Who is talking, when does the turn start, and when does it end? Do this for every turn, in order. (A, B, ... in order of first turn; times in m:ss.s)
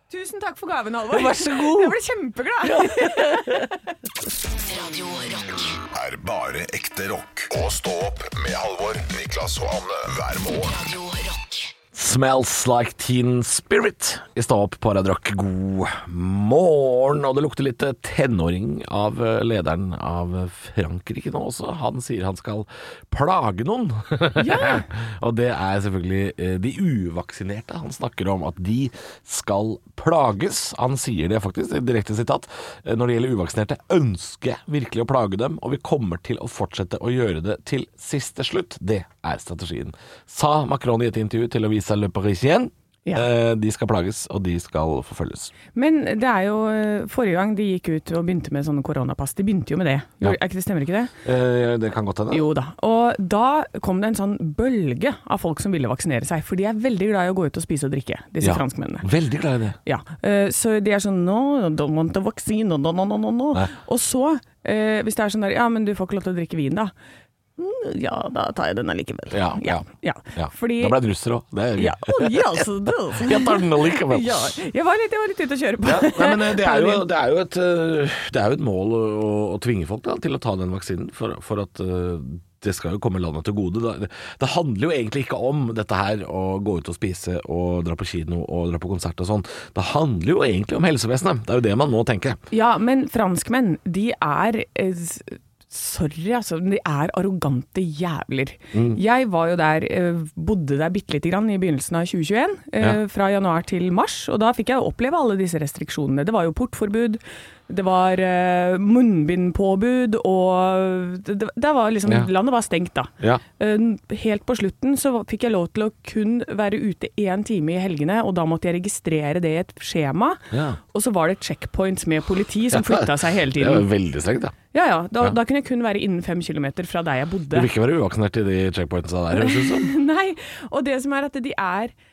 0:00.1-0:04.0 A
0:01.1-0:02.0 B
0:02.6-0:03.7 B
0:04.4-0:05.8 C
0:05.9-0:10.8 D
0:10.6-0:11.7 C
0:11.9-0:45.5 B
0:24.4-0:24.9 A
0:45.8-0:51.1 A
0:51.2-0:52.5 B
0:52.3-0:59.1 A
0:58.4-0:59.8 B
0:59.8-1:06.9 A
1:07.6-1:11.0 A
1:09.3-1:14.6 B
1:11.8-1:17.0 A
1:15.8-1:32.4 B
1:32.5-2:03.9 A
1:38.7-1:39.0 B
2:00.5-2:00.8 B
2:02.7-2:04.6 B
2:04.7-2:07.7 A
2:07.5-2:09.9 B
2:09.3-2:11.9 A